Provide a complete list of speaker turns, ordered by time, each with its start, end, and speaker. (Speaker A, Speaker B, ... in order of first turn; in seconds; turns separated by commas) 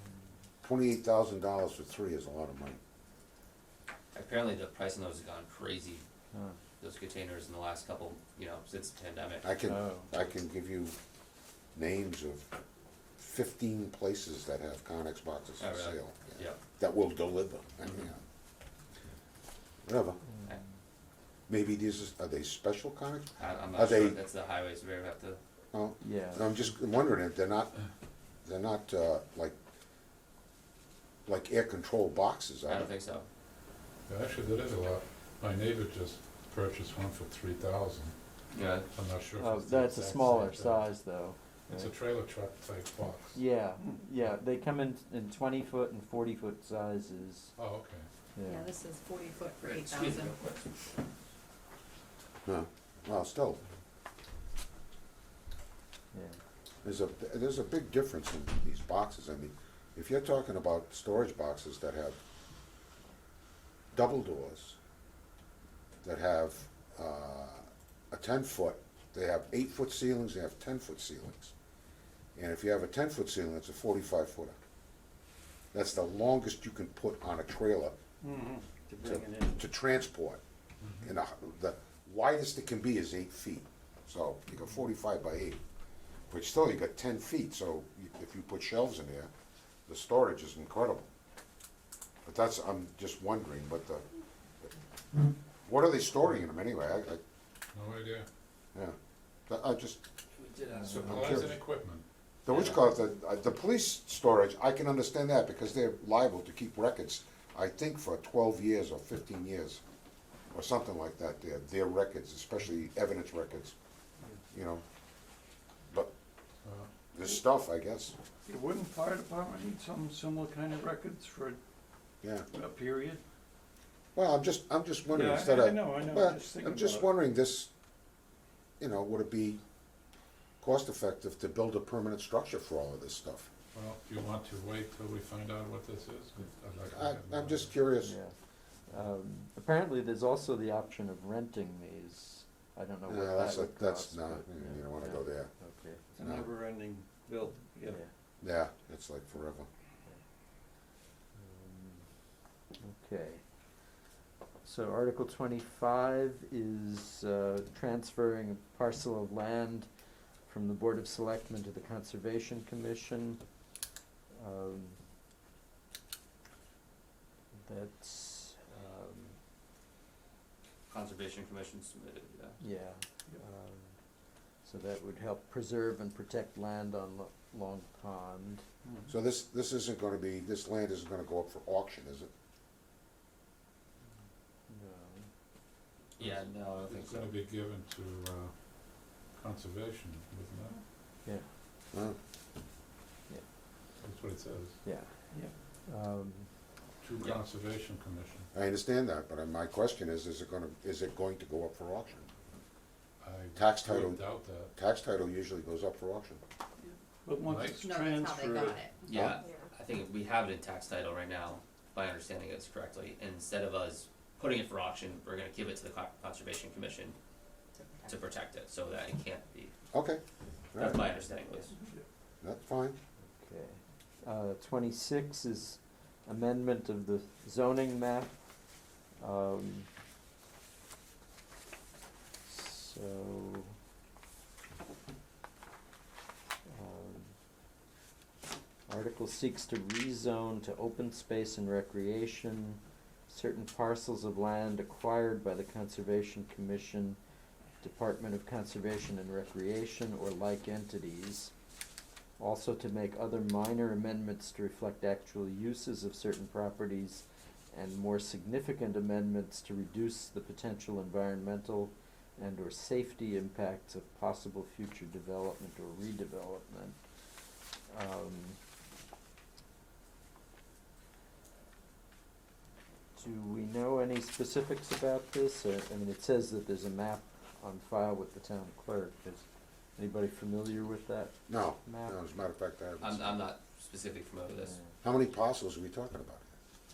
Speaker A: 0.6-2.8, Speaker B: 4.1-6.0, Speaker C: 6.3-6.6, Speaker B: 6.8-9.5, Speaker A: 9.4-11.0, Speaker C: 9.7-10.1, Speaker A: 11.8-12.5, Speaker A: 13.2-18.2, Speaker B: 15.6-16.6, Speaker A: 19.9-20.2, Speaker C: 20.3-20.6, Speaker A: 21.5-24.2, Speaker B: 23.4-25.4, Speaker A: 25.7-27.7, Speaker C: 26.0-26.7, Speaker A: 28.4-29.6, Speaker A: 31.3-32.9, Speaker B: 32.7-33.3, Speaker D: 34.1-40.9, Speaker B: 38.5-38.9, Speaker C: 39.4-41.9, Speaker D: 41.7-43.4, Speaker C: 43.3-47.5, Speaker D: 47.6-48.1, Speaker C: 48.3-48.7, Speaker E: 48.4-50.4, Speaker B: 49.6-51.0, Speaker A: 52.5-53.6, Speaker A: 56.8-62.2, Speaker A: 63.9-64.8, Speaker A: 66.0-71.5, Speaker A: 72.4-74.6, Speaker A: 75.7-78.0, Speaker F: 78.2-79.6, Speaker A: 79.0-80.4, Speaker D: 80.8-81.1, Speaker A: 81.0-85.6, Speaker A: 86.3-89.3, Speaker A: 89.9-91.1, Speaker A: 92.2-94.0, Speaker A: 95.6-97.2, Speaker D: 97.7-98.2, Speaker A: 99.5-100.0, Speaker B: 100.3-101.3, Speaker D: 100.9-102.0, Speaker A: 101.0-101.5, Speaker A: 102.5-109.8, Speaker B: 102.5-102.8, Speaker A: 110.5-113.7, Speaker A: 114.5-114.8, Speaker D: 116.6-116.9, Speaker A: 117.1-118.1, Speaker F: 118.5-121.6, Speaker F: 122.5-123.2, Speaker A: 124.1-127.7, Speaker F: 125.1-127.1, Speaker A: 128.8-129.6, Speaker A: 130.6-133.5, Speaker D: 133.7-137.7, Speaker A: 136.9-138.2, Speaker C: 138.0-138.3, Speaker C: 138.9-146.0, Speaker A: 143.1-145.5, Speaker F: 146.1-148.0, Speaker A: 146.2-146.5, Speaker A: 148.4-149.7, Speaker C: 151.3-152.0, Speaker C: 152.8-153.4, Speaker C: 154.6-159.9, Speaker C: 160.4-163.4, Speaker C: 164.3-165.0, Speaker C: 167.6-169.4, Speaker B: 170.9-172.6, Speaker C: 172.6-174.0, Speaker C: 174.6-178.6, Speaker F: 178.8-179.1, Speaker A: 179.1-182.3, Speaker C: 184.7-185.3, Speaker B: 186.2-187.3, Speaker D: 186.2-190.8, Speaker D: 194.0-194.8, Speaker C: 194.8-196.5, Speaker D: 197.0-198.5, Speaker A: 198.5-202.3, Speaker D: 203.2-204.7, Speaker A: 203.5-206.4, Speaker F: 207.2-208.8, Speaker D: 207.4-207.8, Speaker E: 207.8-209.7, Speaker B: 209.0-217.2, Speaker A: 209.1-209.4, Speaker E: 217.8-218.2, Speaker B: 218.0-219.7, Speaker A: 219.9-220.2, Speaker A: 220.7-221.1, Speaker B: 220.8-221.7, Speaker A: 222.4-223.0, Speaker C: 223.3-228.3, Speaker C: 229.2-229.9, Speaker C: 232.4-233.8, Speaker C: 236.7-237.3, Speaker C: 238.9-247.2, Speaker C: 247.8-251.5, Speaker C: 252.4-267.0, Speaker C: 267.9-268.6, Speaker C: 273.1-282.2, Speaker A: 281.5-283.5, Speaker B: 283.0-284.8, Speaker C: 284.6-284.9, Speaker A: 285.0-286.5